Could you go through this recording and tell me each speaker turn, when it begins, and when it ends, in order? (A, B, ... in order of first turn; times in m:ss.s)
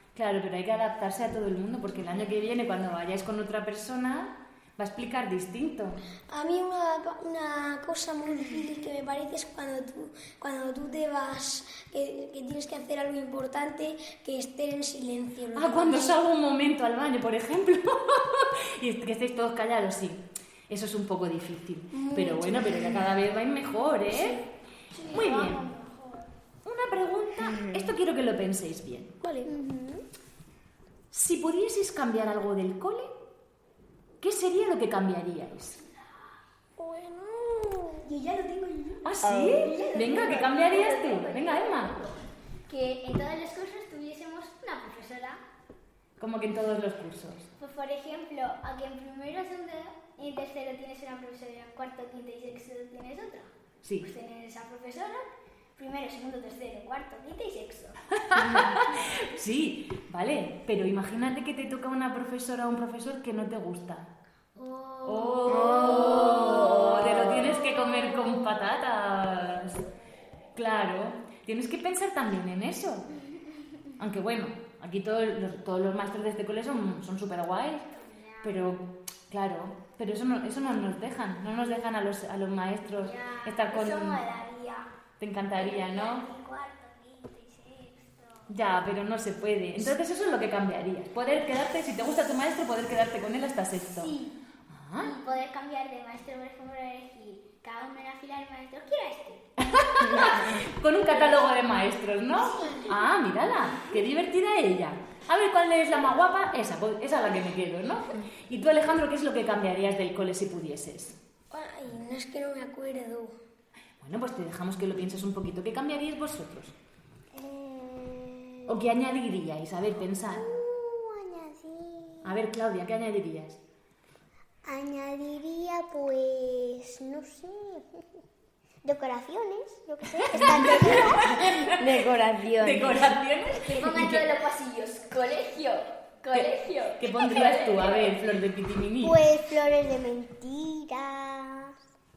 0:00.1-0:06.0 A
0:06.3-0:16.2 B
0:15.5-0:24.4 A
0:21.9-0:23.0 B
0:24.1-0:24.4 B
0:24.9-0:26.3 C
0:25.1-0:25.7 A
0:26.6-0:29.1 A
0:27.5-0:27.9 D
0:29.2-0:29.5 B
0:29.4-0:30.0 E
0:31.1-0:33.1 A
0:34.2-0:35.8 A
0:36.8-0:39.0 B
0:39.0-0:42.0 A
0:39.2-0:39.8 D
0:39.5-0:45.4 C
0:46.2-0:47.5 A
0:47.6-0:58.0 C
0:53.8-0:54.1 A
0:58.1-1:04.1 A
1:04.6-1:08.4 C
1:05.0-1:09.8 A
1:05.5-1:07.2 D
1:10.5-1:13.1 A
1:14.0-1:17.9 A
1:17.9-1:18.7 C
1:18.4-1:24.2 A
1:22.9-1:24.9 C
1:25.2-1:26.3 A
1:25.5-1:28.5 C
1:28.5-1:34.1 A
1:33.9-1:34.3 C
1:34.7-1:35.1 A
1:34.9-1:39.4 C
1:39.6-1:51.2 A
1:41.1-1:41.5 C
1:42.4-1:43.0 C
1:51.5-1:53.3 B
1:54.0-1:56.7 A
1:57.3-1:58.7 E
1:58.7-2:00.4 A
2:00.3-2:02.4 E
2:02.2-2:03.6 A
2:04.6-2:08.0 E
2:08.8-2:11.5 E
2:10.2-2:12.0 A
2:11.4-2:13.2 D
2:12.6-2:14.3 A
2:13.6-2:18.2 C
2:16.3-2:19.2 A
2:19.0-2:21.7 E